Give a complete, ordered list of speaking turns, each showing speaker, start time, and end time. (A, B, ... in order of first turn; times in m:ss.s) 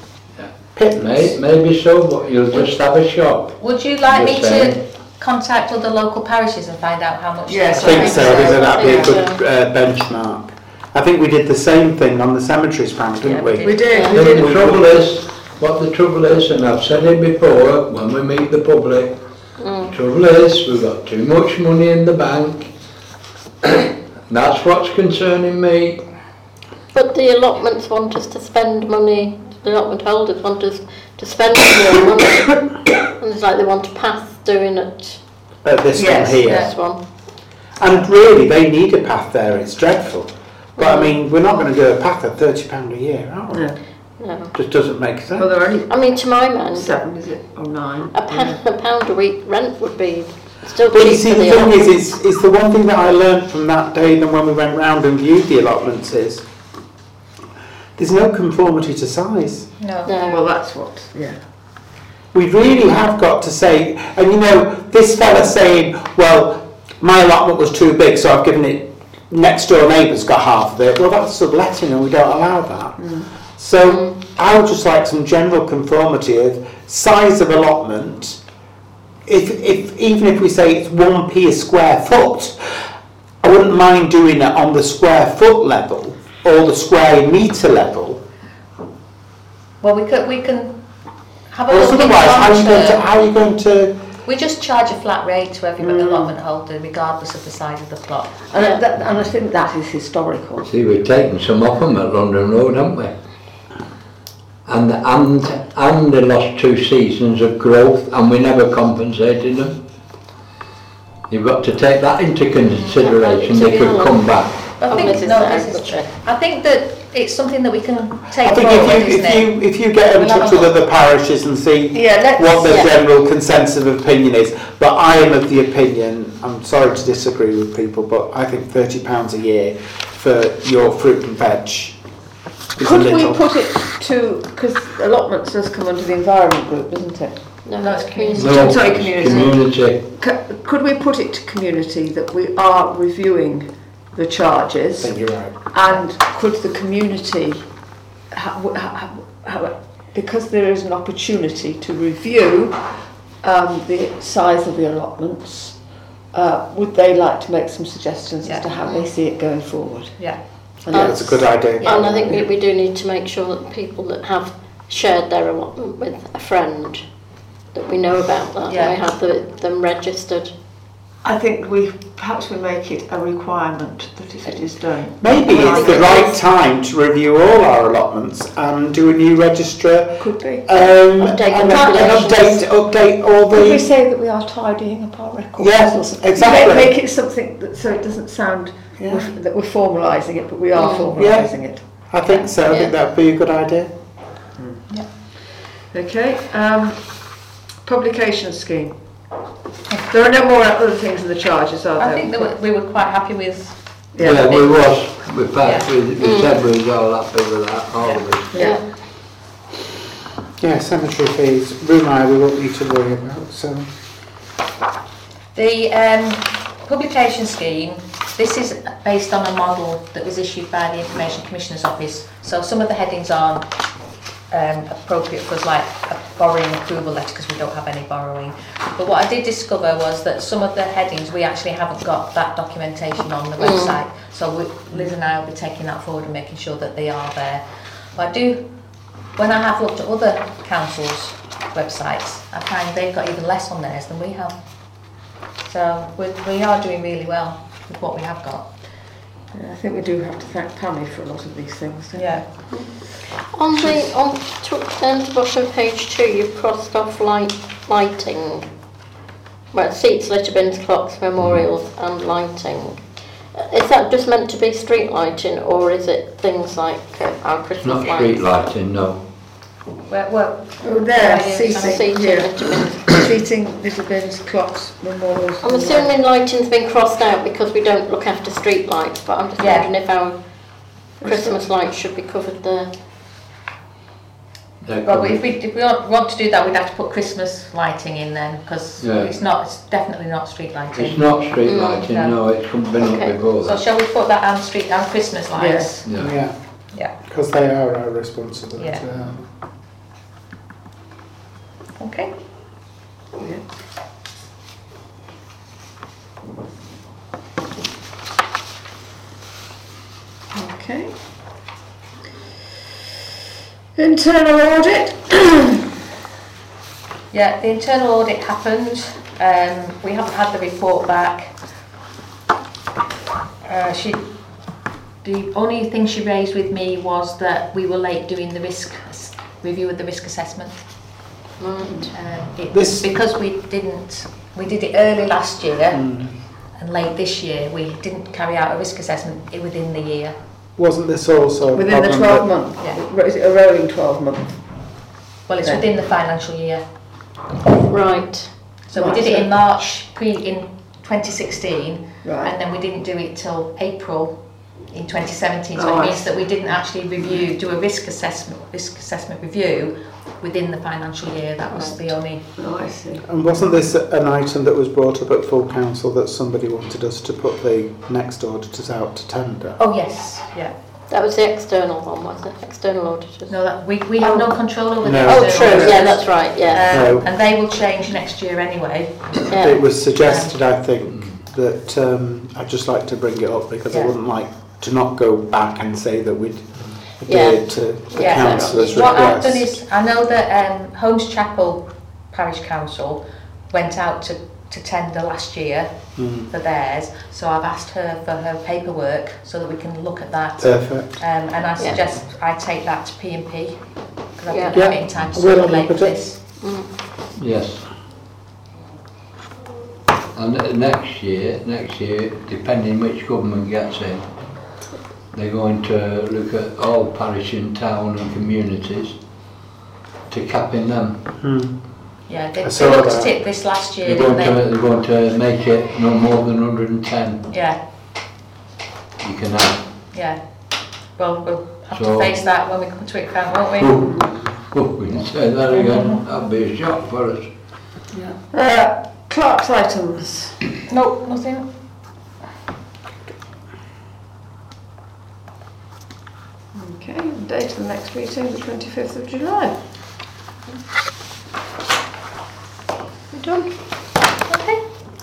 0:00.4-0:04.8 A
0:00.7-0:01.4 B
0:02.5-0:02.8 C
0:03.6-0:08.7 C
0:07.5-0:09.2 D
0:07.8-0:15.0 B
0:08.1-0:09.4 E
0:13.2-0:14.1 C
0:13.6-0:14.6 D
0:13.9-0:14.2 E
0:14.0-0:19.2 A
0:19.6-0:19.9 E
0:19.8-0:22.7 A
0:23.6-0:26.0 A
0:26.9-0:35.2 E
0:35.6-0:36.8 B
0:35.9-0:36.4 D
0:36.4-0:37.0 E
0:36.4-0:36.7 C
0:37.8-0:43.7 B
0:40.8-0:41.2 E
0:43.5-0:43.8 D
0:44.2-0:44.5 E
0:44.5-0:45.6 B
0:45.4-0:45.9 D
0:45.8-0:46.9 E
0:46.7-0:48.6 D
0:48.1-0:52.0 E
0:50.9-0:56.4 B
0:58.0-0:59.7 B
0:59.8-1:00.2 C
1:00.0-1:00.4 E
1:00.3-1:01.4 D
1:02.3-1:18.4 B
1:13.0-1:13.3 D
1:13.8-1:14.1 E
1:19.2-1:22.8 B
1:23.4-1:28.2 B
1:29.8-1:30.8 C
1:31.5-1:33.0 C
1:31.7-1:34.0 B
1:34.2-1:38.4 C
1:35.8-1:36.3 D
1:38.5-1:40.7 D
1:40.7-1:43.1 A
1:44.6-1:49.8 A
1:51.3-1:54.8 A
1:52.6-1:59.6 C
1:53.3-1:54.2 E
1:54.8-1:56.1 E
1:58.4-2:12.0 B
2:00.1-2:00.8 C
2:01.9-2:02.8 D
2:02.6-2:02.9 E
2:12.8-2:13.5 B
2:12.8-2:17.5 D
2:17.6-2:18.6 E
2:17.8-2:18.8 C
2:18.3-2:27.6 D
2:18.3-2:20.0 A
2:25.0-2:25.7 B
2:28.3-2:35.8 D
2:36.3-2:40.2 D
2:38.4-2:38.7 C
2:40.8-2:41.4 D
2:40.9-2:42.2 B
2:40.9-2:47.0 E
2:41.8-2:42.4 C
2:42.1-2:42.5 D
2:47.7-2:50.5 E
2:48.7-2:49.0 C
2:51.2-2:56.4 D
2:55.2-3:03.9 B
2:55.5-2:56.3 E
3:00.2-3:00.9 D
3:01.2-3:02.6 E
3:01.6-3:02.3 D
3:03.5-3:11.8 D
3:05.6-3:06.9 B
3:09.0-3:09.3 B
3:10.7-3:11.1 E
3:11.1-3:13.9 B
3:14.6-3:14.8 D
3:15.9-3:19.0 D
3:20.1-3:22.5 D
3:22.0-3:24.9 C
3:24.1-3:24.8 D
3:24.2-3:28.5 A
3:25.6-3:25.9 C
3:26.2-3:26.6 E
3:28.5-3:28.8 D
3:28.5-3:28.8 E
3:30.6-3:33.9 B
3:35.5-3:43.7 C
3:44.5-3:57.6 C
3:53.6-3:53.9 E
3:58.1-3:58.7 C
3:59.4-4:04.6 C
4:05.6-4:08.7 C
4:09.5-4:12.6 D
4:12.1-4:12.5 C
4:12.7-4:18.6 E
4:19.7-4:23.0 E
4:21.4-4:21.7 A
4:23.5-4:28.5 E
4:27.8-4:29.2 A
4:30.1-4:32.0 C
4:30.8-4:36.1 D
4:31.7-4:33.3 E
4:35.6-4:40.4 E
4:39.6-4:39.9 C
4:41.2-4:42.9 E
4:41.2-4:41.7 D
4:44.8-4:45.4 A
4:45.0-4:52.4 C
4:49.0-4:49.4 A
4:50.9-4:53.8 A
4:51.6-4:52.1 E
4:53.0-4:53.4 E
4:53.6-4:56.1 C
4:55.5-4:56.0 D
4:56.0-4:56.3 A
4:56.2-4:56.6 B
4:57.1-4:59.4 B
4:58.8-4:59.0 C
5:02.0-5:02.3 C
5:10.5-5:11.1 D
5:14.0-5:15.8 D
5:17.3-5:21.5 C
5:23.6-5:24.3 C
5:25.2-5:30.8 C
5:31.6-5:32.1 E
5:31.8-5:32.1 D
5:32.1-5:36.2 C
5:32.7-5:33.1 B
5:35.9-5:36.3 B
5:36.7-5:40.4 C
5:40.8-5:42.6 B
5:41.7-5:44.6 D
5:45.5-5:46.8 C
5:47.9-5:48.5 E
5:48.9-6:02.4 C
5:48.9-5:49.5 D
5:52.2-5:52.5 D
5:55.7-5:56.4 D
6:02.6-6:03.2 D
6:03.3-6:09.8 B
6:09.8-6:10.7 C
6:11.1-6:13.6 E
6:13.5-6:19.5 C
6:14.2-6:16.8 E
6:15.0-6:16.3 B
6:16.9-6:17.3 B
6:19.5-6:29.8 B
6:19.5-6:19.8 E
6:20.2-6:20.5 C
6:21.1-6:21.4 A
6:27.3-6:29.2 E
6:28.2-6:35.9 C
6:36.2-6:36.5 B
6:36.4-6:46.4 C
6:40.6-6:41.2 B
6:44.5-6:44.9 E
6:44.7-6:46.2 B
6:46.6-6:46.9 E
6:47.4-6:47.8 A
6:50.3-6:54.3 A
6:55.3-6:59.2 A
7:00.3-7:01.2 A
7:01.4-7:01.8 B
7:02.3-7:04.6 C
7:02.6-7:03.3 B
7:04.0-7:07.4 A
7:07.5-7:07.8 C
7:09.2-7:09.8 A
7:10.1-7:10.4 C
7:11.2-7:14.0 C
7:11.9-7:12.3 A
7:13.8-7:17.5 A
7:15.7-7:16.2 C
7:18.5-7:20.6 D
7:20.9-7:21.7 C
7:26.7-7:29.8 D
7:33.3-7:33.7 E
7:34.5-7:34.8 C